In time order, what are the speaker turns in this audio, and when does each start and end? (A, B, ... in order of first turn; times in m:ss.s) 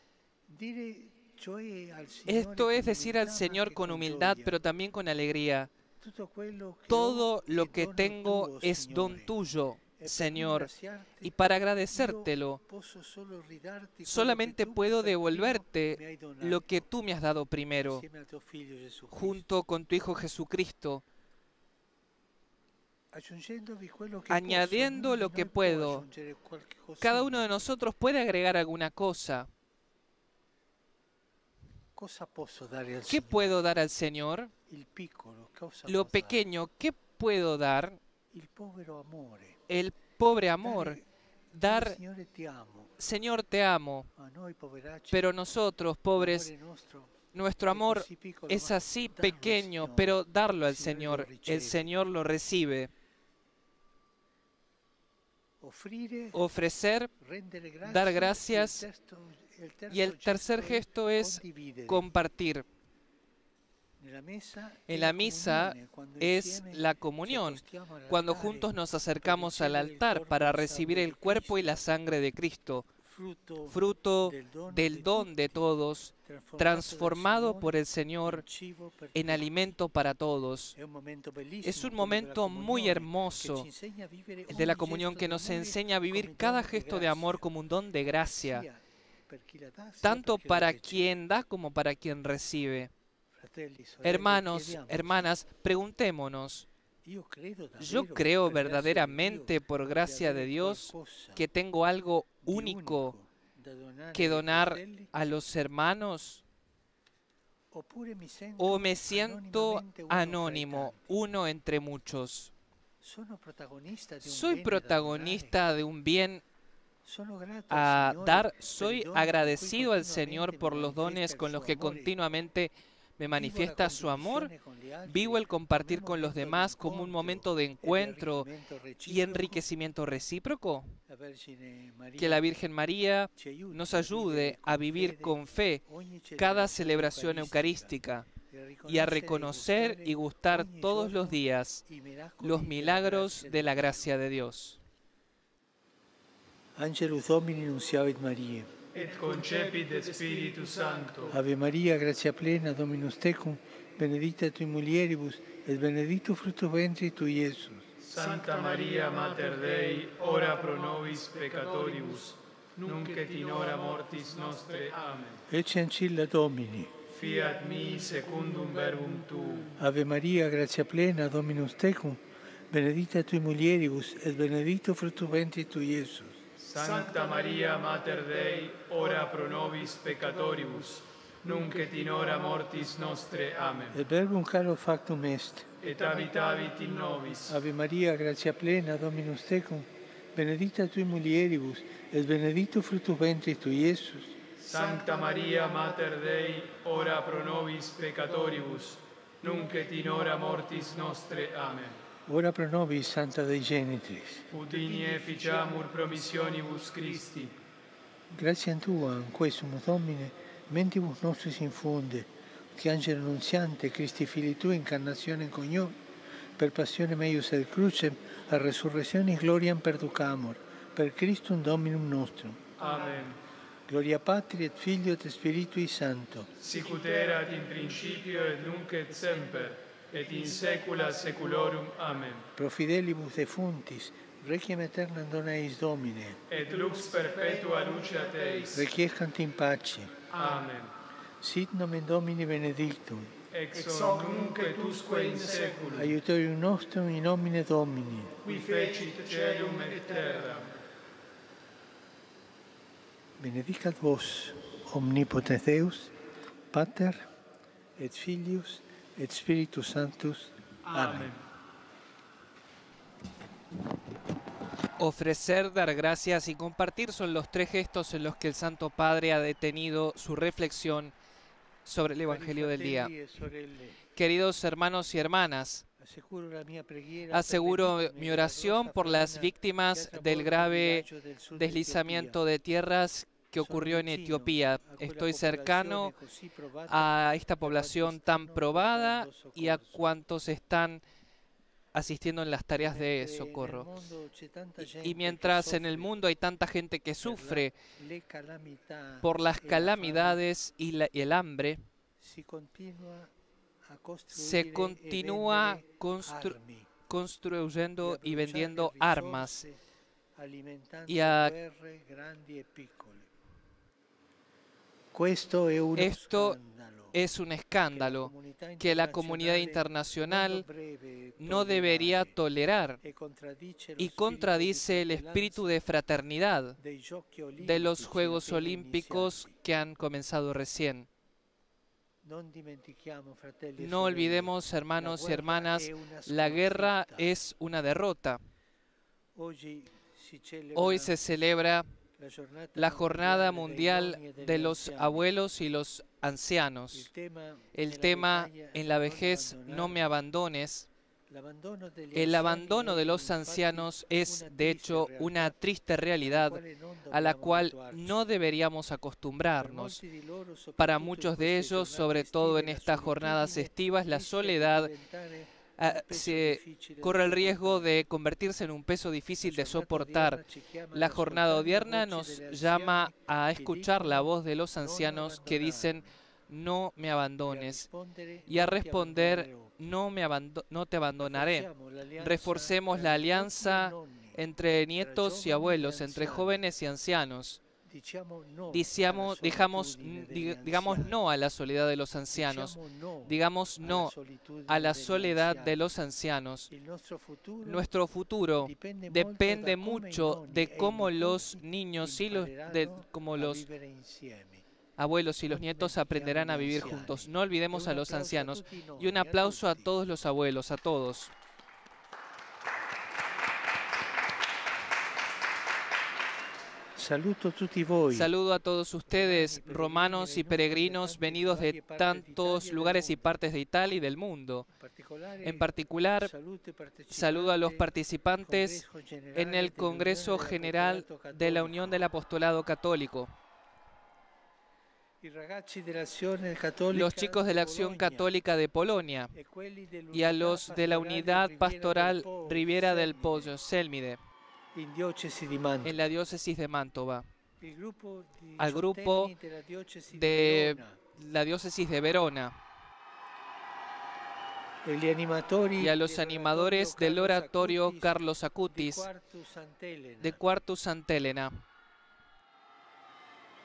0:00.5-0:04.6 A
0:02.2-0:05.7 B
0:06.0-0:09.3 A
0:06.9-0:10.7 B
0:09.9-0:16.9 A
0:11.2-0:12.6 B
0:14.0-0:18.0 B
0:17.8-0:19.5 A
0:19.1-0:21.0 B
0:23.1-0:27.7 A
0:24.3-0:26.0 B
0:27.0-0:29.5 B
0:31.9-0:33.6 A
0:33.1-0:34.5 B
0:34.6-0:36.5 A
0:35.8-0:38.0 B
0:38.3-0:39.6 A
0:39.7-0:41.0 B
0:40.6-0:41.0 A
0:41.5-0:42.0 B
0:41.6-0:43.0 A
0:43.0-0:44.1 B
0:44.1-0:45.4 A
0:45.1-0:46.5 B
0:46.1-0:52.0 A
0:47.3-0:52.9 B
0:55.6-0:56.5 A
0:56.3-0:57.1 B
0:57.2-1:02.1 A
0:57.8-0:58.8 B
0:59.9-1:02.6 B
1:04.0-1:11.8 A
1:04.9-1:12.9 B
1:13.0-1:19.7 A
1:13.7-1:18.4 B
1:19.1-1:20.7 B
1:20.7-1:27.5 A
1:21.6-1:23.7 B
1:24.5-1:28.6 B
1:28.4-1:31.1 A
1:30.0-1:32.9 B
1:33.3-1:35.4 A
1:34.0-1:36.7 B
1:37.0-1:41.4 A
1:37.8-1:43.1 B
1:42.4-1:45.1 A
1:44.1-1:46.4 B
1:47.7-1:51.2 A
1:48.6-1:52.5 B
1:53.0-1:55.6 A
1:54.2-1:56.4 B
1:57.0-2:02.3 A
1:57.7-2:04.5 B
2:03.3-2:09.7 A
2:05.1-2:08.5 B
2:09.0-2:10.9 B
2:11.0-2:12.5 A
2:12.2-2:15.8 B
2:13.3-2:24.1 A
2:16.4-2:18.3 B
2:18.9-2:21.8 B
2:22.4-2:24.8 B
2:26.8-2:28.9 A
2:28.9-2:31.3 C
2:31.3-2:37.9 A
2:38.0-2:45.4 C
2:45.5-2:47.0 A
2:47.1-2:49.7 C
2:49.7-2:56.4 A
2:56.6-3:04.0 C
3:03.9-3:05.8 A
3:05.8-3:07.6 C
3:07.4-3:14.4 A
3:14.6-3:22.0 C
3:22.2-3:24.5 A
3:24.5-3:27.5 C
3:28.3-3:36.0 A
3:36.6-3:43.2 A
3:42.8-3:43.4 C
3:43.9-3:46.5 A
3:46.6-3:52.4 C
3:52.5-3:56.5 A
3:56.5-3:58.8 C
3:58.7-4:00.2 A
4:00.3-4:00.9 C
4:01.4-4:03.3 A
4:03.5-4:06.1 C
4:05.8-4:08.5 A
4:08.4-4:10.8 C
4:13.4-4:16.1 A
4:16.7-4:17.2 A
4:18.0-4:21.4 A
4:20.9-4:21.4 C
4:25.0-4:31.1 B
4:31.8-4:33.1 B
4:32.2-4:34.1 A
4:34.1-4:35.8 B
4:36.0-4:42.4 A
4:37.3-4:46.1 B
4:43.5-4:50.2 A
4:46.9-4:51.0 B
4:51.9-4:54.0 B
4:52.7-4:56.2 A
4:54.8-4:57.8 B
4:57.2-5:00.4 A
4:59.2-5:01.8 B
5:02.2-5:03.3 A
5:03.9-5:07.0 A
5:04.3-5:09.6 B
5:08.0-5:09.8 A
5:10.4-5:13.3 A
5:11.1-5:11.5 B
5:15.1-5:17.2 A
5:15.9-5:16.6 B
5:17.1-5:20.6 B
5:17.9-5:22.4 A
5:21.4-5:23.0 B
5:23.0-5:25.8 A
5:24.0-5:26.8 B
5:26.8-5:29.6 A
5:27.6-5:31.1 B
5:32.2-5:37.3 A
5:33.8-5:38.4 B
5:39.3-5:41.3 A
5:40.7-5:41.8 B
5:42.2-5:45.3 A
5:42.8-5:47.1 B
5:46.9-5:50.0 A
5:47.7-5:50.9 B
5:51.3-5:55.6 A
5:52.1-6:00.0 B
5:56.2-5:58.2 A
5:59.6-6:08.0 A
6:00.8-6:04.9 B
6:05.8-6:10.4 B
6:09.4-6:16.1 A
6:10.9-6:17.9 B
6:17.4-6:19.7 A
6:18.5-6:21.7 B
6:21.2-6:26.7 A
6:22.2-6:27.6 B
6:27.8-6:31.2 A
6:28.7-6:34.1 B
6:32.3-6:36.0 A
6:34.7-6:36.7 B
6:36.7-6:37.9 A
6:37.6-6:43.6 B
6:38.6-6:44.6 A
6:45.0-6:51.3 B
6:45.4-6:49.9 A
6:56.9-6:58.3 A
6:58.1-7:04.7 B
6:59.0-7:03.4 A
7:04.7-7:12.1 A
7:05.4-7:06.3 B
7:07.1-7:08.8 B
7:09.3-7:13.3 B
7:15.2-7:18.4 A
7:16.9-7:19.3 B
7:19.3-7:23.6 A
7:20.1-7:24.2 B
7:24.7-7:26.0 A
7:25.8-7:27.3 B
7:27.6-7:31.1 A
7:28.6-7:29.3 B
7:30.1-7:32.6 B
7:34.8-7:40.6 A
7:35.8-7:39.1 B
7:40.2-7:41.6 B